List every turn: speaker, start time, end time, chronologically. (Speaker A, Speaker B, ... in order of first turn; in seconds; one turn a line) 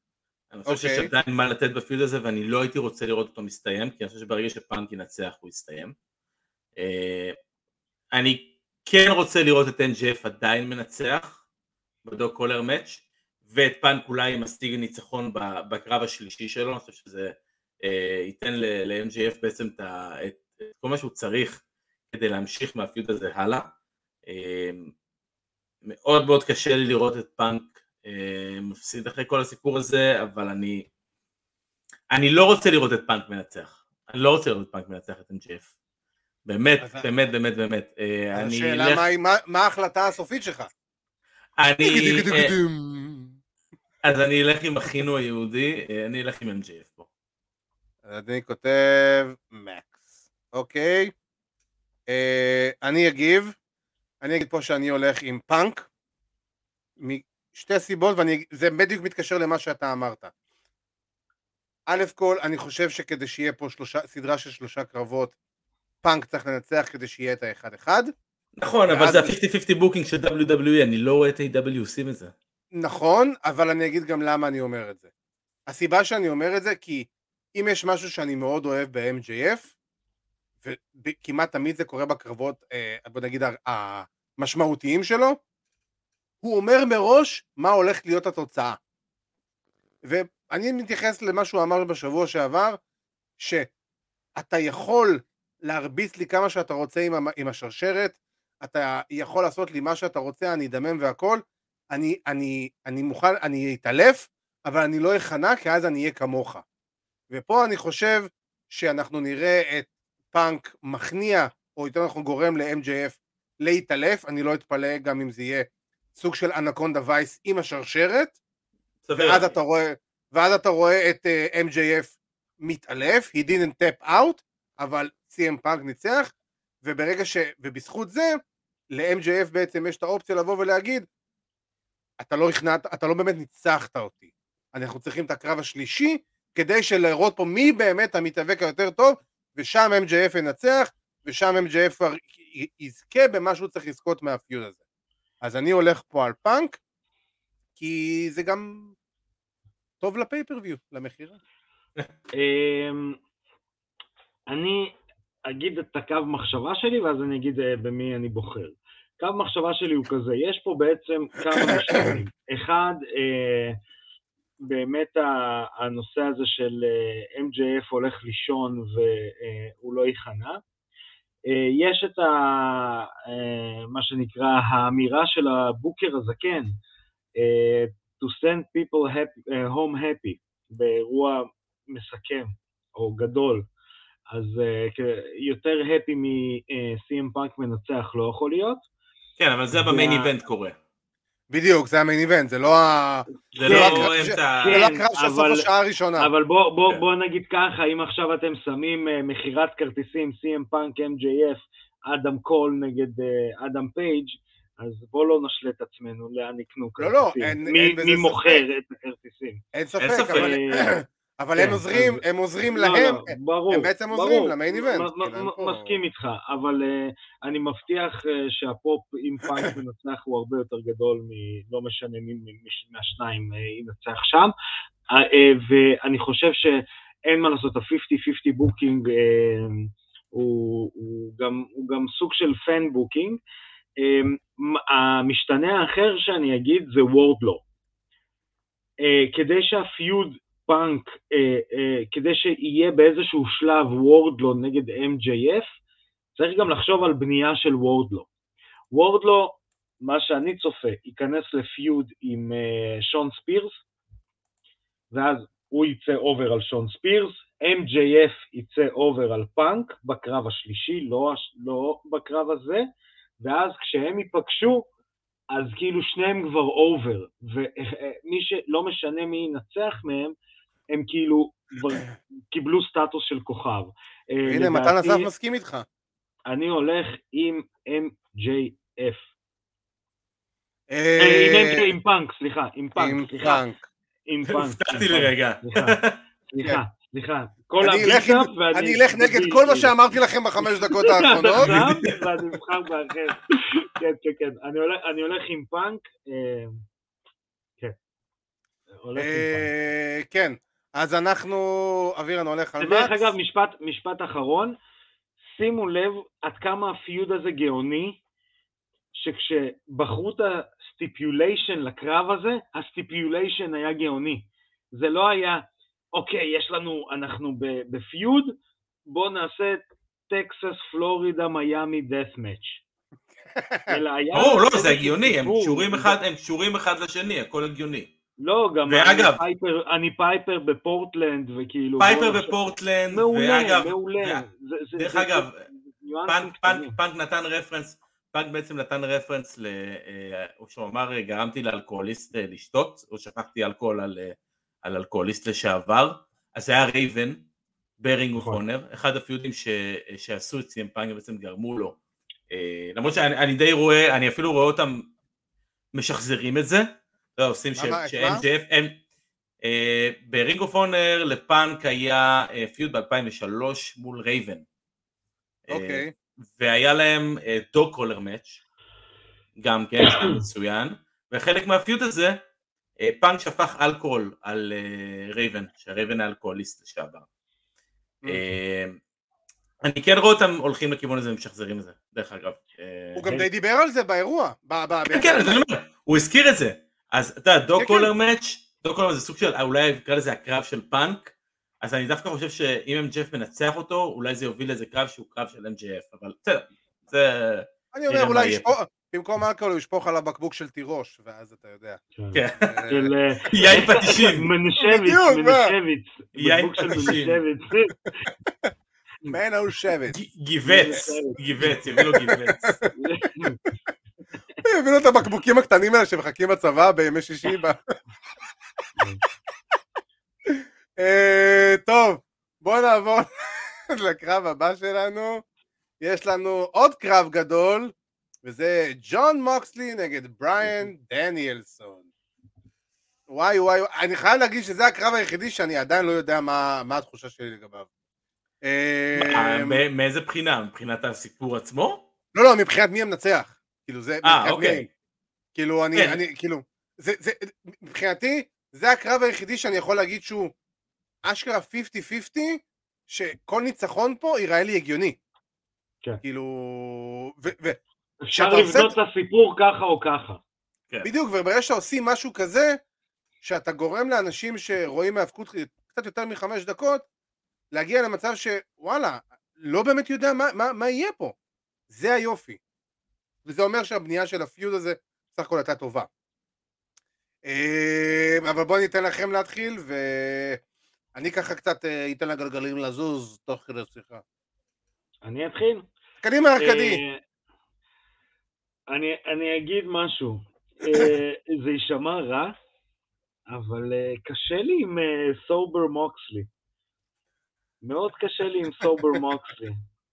Speaker A: 0.5-5.9
Speaker B: 0.7-1.1
Speaker A: 6.8-7.3
Speaker A: 8.1-11.4
Speaker A: 12.0-23.6
Speaker A: 24.3-24.9
Speaker A: 25.8-30.9
Speaker A: 32.1-35.7
Speaker A: 36.5-39.0
Speaker B: 36.8-37.1
Speaker B: 38.3-40.7
Speaker A: 41.6-42.5
Speaker B: 41.8-43.4
Speaker A: 44.0-47.1
Speaker B: 48.0-51.1
Speaker B: 52.1-53.5
Speaker B: 54.2-55.9
Speaker B: 57.0-60.3
Speaker B: 61.9-65.3
Speaker B: 66.0-68.1
Speaker A: 68.6-72.3
Speaker B: 68.9-69.3
Speaker B: 72.7-75.1
Speaker B: 75.7-79.7
Speaker B: 80.6-85.4
Speaker B: 86.4-88.8
Speaker B: 90.0-92.8
Speaker B: 93.4-93.7
Speaker B: 94.4-106.6
Speaker B: 107.3-118.4
Speaker A: 119.0-119.5
Speaker B: 119.1-126.3
Speaker B: 126.8-128.4
Speaker B: 128.9-131.1
Speaker B: 132.2-144.8
Speaker B: 145.4-146.8
Speaker B: 147.8-148.9
Speaker B: 150.0-151.4
Speaker C: 152.4-153.2
Speaker C: 154.5-154.9
Speaker C: 155.5-163.8
Speaker C: 164.6-170.6
Speaker C: 171.5-176.7
Speaker C: 177.4-183.6
Speaker C: 184.3-188.8
Speaker A: 189.4-190.7
Speaker C: 189.8-190.3
Speaker B: 191.5-196.3
Speaker A: 193.5-194.9
Speaker C: 193.6-195.7
Speaker C: 196.2-209.6
Speaker B: 207.0-208.6
Speaker B: 209.7-216.0
Speaker A: 210.0-210.5
Speaker C: 210.1-210.9
Speaker C: 211.6-224.5
Speaker C: 225.1-233.4
Speaker C: 234.0-237.6
Speaker C: 239.0-245.7
Speaker C: 246.3-248.3
Speaker C: 248.9-253.8
Speaker C: 255.1-262.9
Speaker C: 263.4-264.9
Speaker C: 265.5-270.3
Speaker C: 270.9-275.3
Speaker B: 274.5-275.9
Speaker C: 276.5-279.3
Speaker B: 280.9-281.9
Speaker C: 281.2-283.6
Speaker B: 283.0-283.8
Speaker C: 284.3-289.9
Speaker A: 284.5-286.2
Speaker B: 287.8-291.9
Speaker C: 290.6-296.8
Speaker A: 291.6-292.1
Speaker C: 299.0-299.7
Speaker B: 299.1-303.3
Speaker C: 302.8-304.8
Speaker C: 305.4-308.2
Speaker C: 309.1-318.5
Speaker C: 319.1-322.8
Speaker B: 323.4-324.0
Speaker C: 323.9-326.2
Speaker A: 324.3-328.1
Speaker C: 328.4-332.5
Speaker A: 328.9-329.4
Speaker A: 332.0-334.4
Speaker C: 333.1-336.9
Speaker A: 335.0-335.5
Speaker A: 336.3-347.4
Speaker A: 348.0-351.9
Speaker A: 352.5-355.0
Speaker A: 355.9-356.9
Speaker A: 357.4-359.0
Speaker B: 357.8-358.4
Speaker A: 359.6-364.6
Speaker A: 365.7-368.6
Speaker B: 365.7-366.1
Speaker A: 369.6-372.4
Speaker A: 373.0-377.2
Speaker A: 378.3-379.0
Speaker A: 379.8-383.4
Speaker B: 383.1-385.6
Speaker A: 385.1-398.7
Speaker B: 387.8-388.1
Speaker B: 397.9-402.0
Speaker C: 402.1-408.1
Speaker A: 402.3-402.8
Speaker B: 402.6-403.1
Speaker A: 403.5-404.5
Speaker B: 404.8-405.7
Speaker A: 406.4-407.4
Speaker B: 409.3-410.1
Speaker A: 410.1-412.7
Speaker C: 410.6-411.4
Speaker B: 411.9-412.9
Speaker C: 412.9-413.6
Speaker B: 414.6-417.8
Speaker B: 420.5-425.4
Speaker B: 426.0-427.9
Speaker B: 428.4-432.0
Speaker B: 433.3-437.9
Speaker B: 438.6-439.8
Speaker A: 439.1-442.0
Speaker B: 442.3-444.9
Speaker A: 444.2-444.8
Speaker B: 445.5-450.5
Speaker B: 451.2-455.2
Speaker B: 456.2-457.8
Speaker C: 458.2-460.4
Speaker B: 458.3-458.9
Speaker B: 461.0-462.8
Speaker B: 463.4-467.0
Speaker B: 467.7-471.3
Speaker B: 471.9-472.6
Speaker B: 473.4-476.1
Speaker B: 477.4-480.6
Speaker B: 481.1-484.2
Speaker C: 485.2-485.8
Speaker B: 486.2-487.0
Speaker C: 486.6-487.2
Speaker C: 488.9-492.5
Speaker C: 493.5-496.5
Speaker C: 497.8-499.8